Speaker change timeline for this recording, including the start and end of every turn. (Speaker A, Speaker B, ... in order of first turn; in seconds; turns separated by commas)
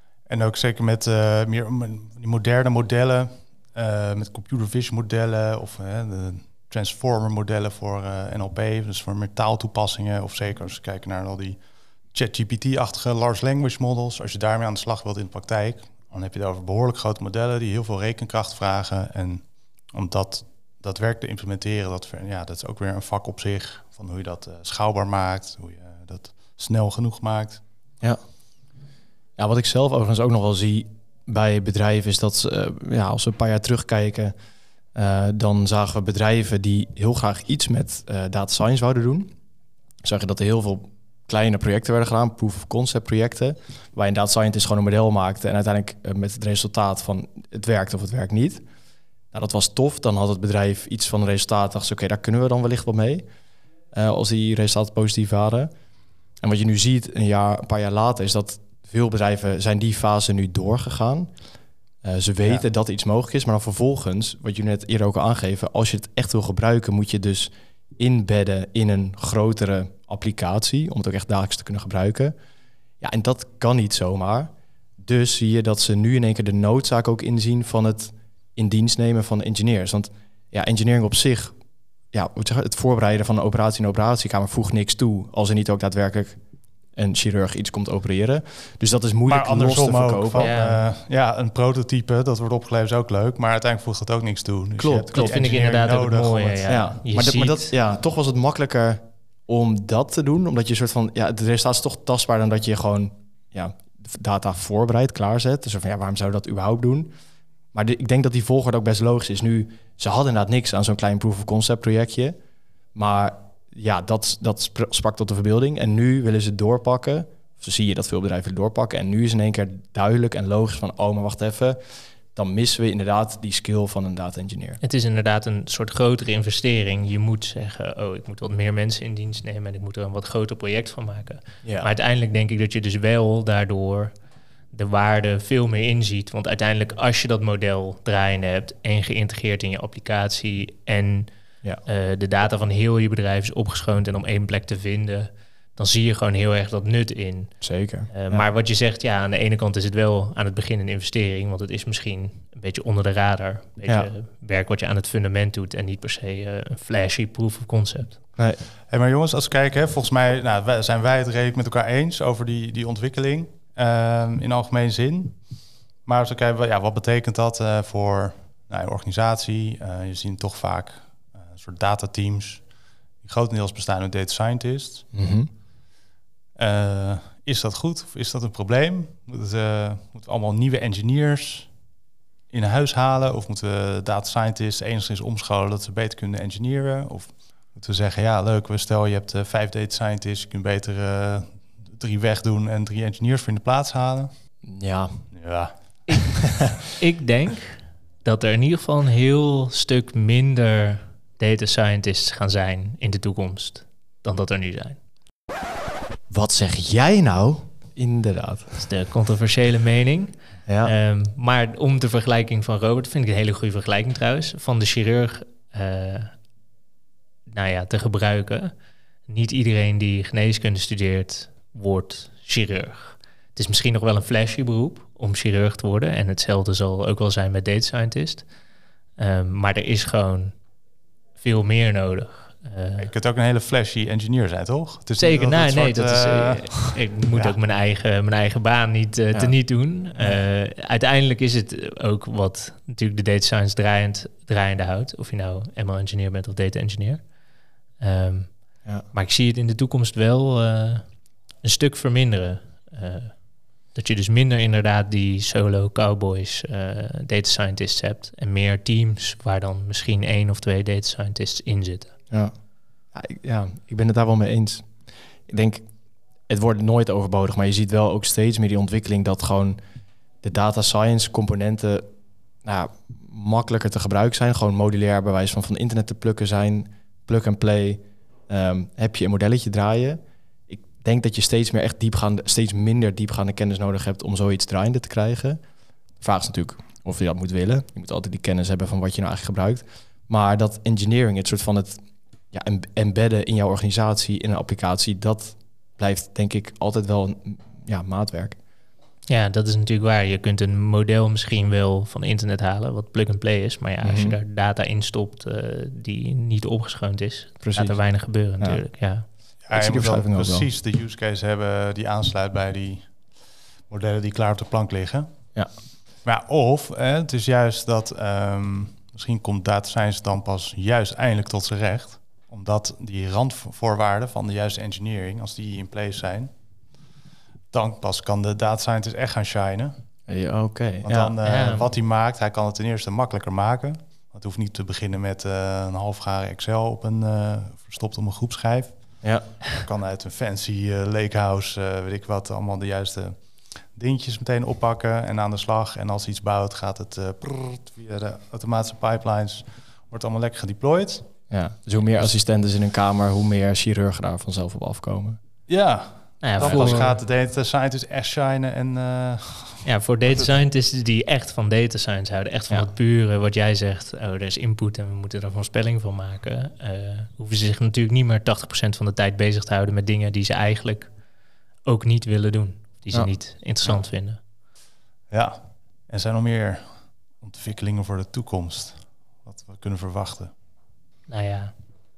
Speaker A: 0.3-11.6, Speaker A: 12.1-27.6, Speaker B: 29.4-34.3, Speaker B: 34.9-39.3, Speaker B: 40.0-48.6, Speaker B: 49.3-53.2, Speaker B: 53.9-55.7, Speaker B: 56.4-61.4, Speaker B: 62.0-72.3, Speaker B: 73.0-81.6, Speaker B: 82.1-86.4, Speaker B: 86.9-90.6, Speaker A: 89.3-96.7, Speaker C: 90.4-90.8, Speaker B: 94.8-95.4, Speaker C: 95.1-97.7, Speaker B: 96.7-107.1, Speaker B: 107.7-112.3, Speaker B: 112.9-124.8, Speaker C: 124.8-134.2, Speaker B: 131.6-131.9, Speaker C: 134.7-158.2, Speaker B: 147.6-148.4, Speaker B: 158.4-158.6, Speaker A: 158.8-172.6, Speaker A: 173.2-175.1, Speaker B: 175.1-175.5, Speaker A: 176.6-181.7, Speaker A: 182.5-194.3, Speaker B: 194.6-195.3, Speaker A: 195.3-196.4, Speaker C: 196.1-205.0, Speaker B: 206.3-208.8, Speaker C: 208.8-216.3, Speaker B: 210.7-210.9, Speaker C: 217.5-218.7, Speaker C: 219.3-228.5, Speaker C: 229.2-230.6, Speaker C: 231.4-233.1, Speaker A: 233.0-237.6, Speaker C: 235.2-247.3, Speaker B: 239.3-239.6, Speaker C: 248.0-262.1, Speaker B: 263.1-265.8, Speaker B: 266.4-269.8, Speaker B: 270.4-272.1, Speaker B: 272.6-285.6, Speaker B: 286.2-298.6, Speaker C: 299.3-309.3, Speaker B: 304.0-304.4, Speaker B: 307.6-308.8, Speaker A: 309.6-315.3, Speaker B: 309.7-310.7, Speaker A: 316.2-326.5, Speaker A: 327.7-329.9, Speaker B: 330.3-331.4, Speaker A: 331.0-351.4, Speaker C: 331.4-331.9, Speaker B: 339.2-339.5, Speaker B: 351.5-355.4, Speaker A: 355.7-360.5, Speaker C: 356.4-357.2, Speaker B: 356.6-357.1, Speaker C: 359.8-371.2, Speaker C: 371.8-374.4, Speaker A: 375.3-380.5, Speaker C: 381.3-381.7